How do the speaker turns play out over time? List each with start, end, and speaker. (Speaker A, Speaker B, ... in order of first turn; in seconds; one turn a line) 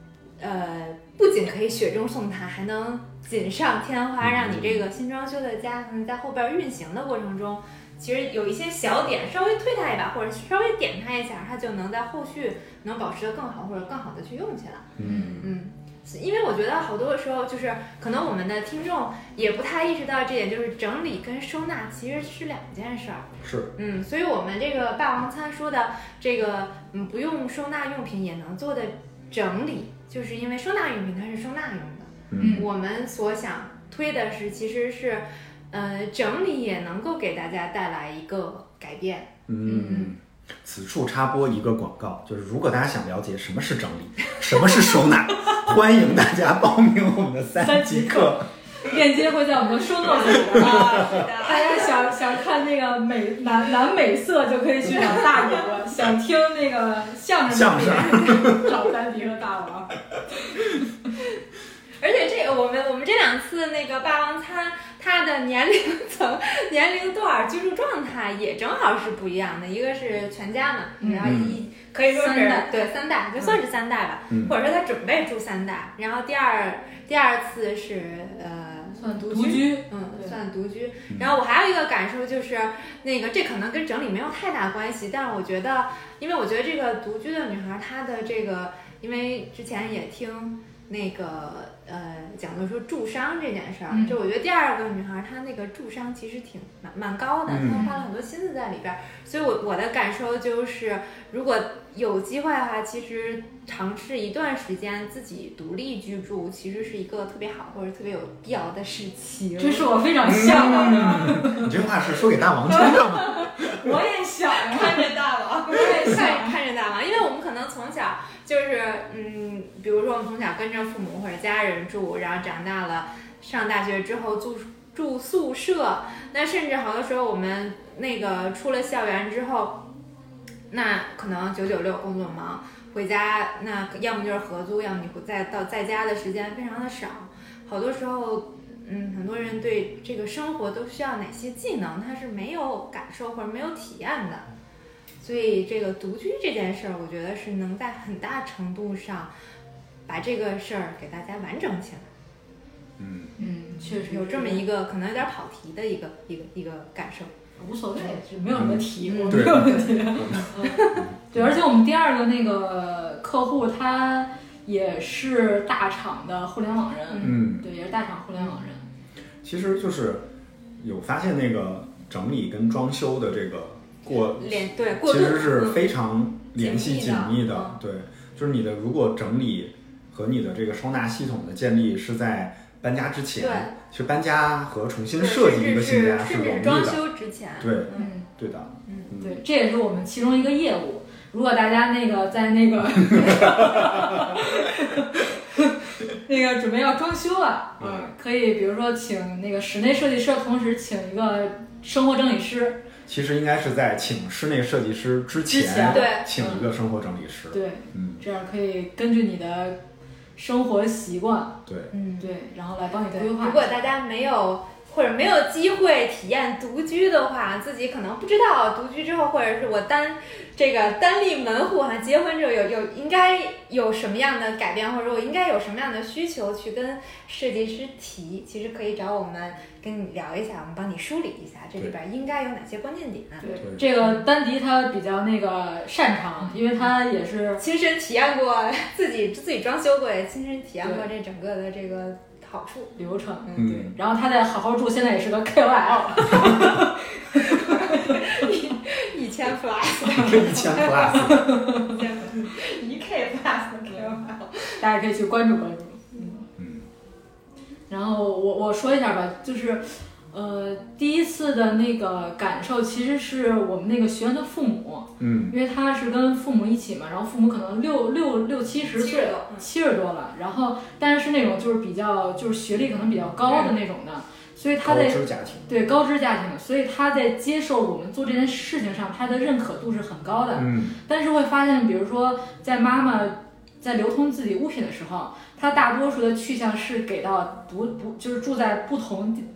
Speaker A: 0.4-40.1
Speaker B: 4.2-4.9
Speaker B: 15.0-15.5
Speaker C: 15.0-15.5
Speaker B: 23.4-23.7
Speaker B: 32.3-32.7
Speaker C: 32.4-32.7
Speaker B: 39.5-48.5
Speaker C: 47.6-59.9
Speaker A: 50.2-52.0
Speaker B: 50.6-51.2
Speaker B: 57.5-58.7
Speaker A: 62.0-111.1
Speaker C: 71.0-71.4
Speaker B: 71.2-71.6
Speaker C: 72.1-72.7
Speaker B: 74.3-74.6
Speaker C: 79.0-80.3
Speaker C: 93.9-94.2
Speaker B: 97.5-97.8
Speaker C: 97.7-98.0
Speaker C: 109.6-111.7
Speaker B: 110.2-114.0
Speaker C: 112.7-115.1
Speaker A: 114.6-129.9
Speaker C: 115.7-116.5
Speaker A: 130.7-144.5
Speaker A: 145.2-149.3
Speaker A: 150.1-152.1
Speaker B: 153.0-153.4
Speaker C: 153.4-154.7
Speaker A: 154.0-157.3
Speaker C: 157.6-168.9
Speaker B: 158.5-161.5
Speaker A: 159.1-159.9
Speaker A: 160.6-161.0
Speaker A: 167.1-167.4
Speaker B: 167.2-167.7
Speaker B: 169.4-187.0
Speaker A: 174.1-175.8
Speaker A: 176.6-177.8
Speaker A: 183.4-183.8
Speaker A: 185.2-188.1
Speaker B: 187.6-189.4
Speaker C: 187.9-188.3
Speaker C: 189.2-202.8
Speaker B: 193.2-194.0
Speaker B: 197.8-198.1
Speaker B: 203.1-208.2
Speaker C: 205.5-206.6
Speaker A: 205.9-206.4
Speaker C: 207.5-209.8
Speaker C: 210.4-211.6
Speaker B: 211.7-211.9
Speaker A: 211.9-212.3
Speaker C: 212.2-213.7
Speaker A: 213.1-233.5
Speaker C: 233.4-237.6
Speaker B: 233.6-233.8
Speaker A: 237.6-243.8
Speaker C: 240.8-241.1
Speaker C: 243.0-248.5
Speaker B: 243.6-244.0
Speaker A: 247.6-254.8
Speaker B: 250.1-251.5
Speaker C: 250.2-250.6
Speaker C: 251.1-251.9
Speaker C: 254.8-256.5
Speaker B: 256.6-256.9
Speaker C: 257.9-289.5
Speaker B: 265.2-265.6
Speaker A: 268.9-269.7
Speaker A: 273.4-273.8
Speaker B: 274.8-275.8
Speaker B: 280.6-281.0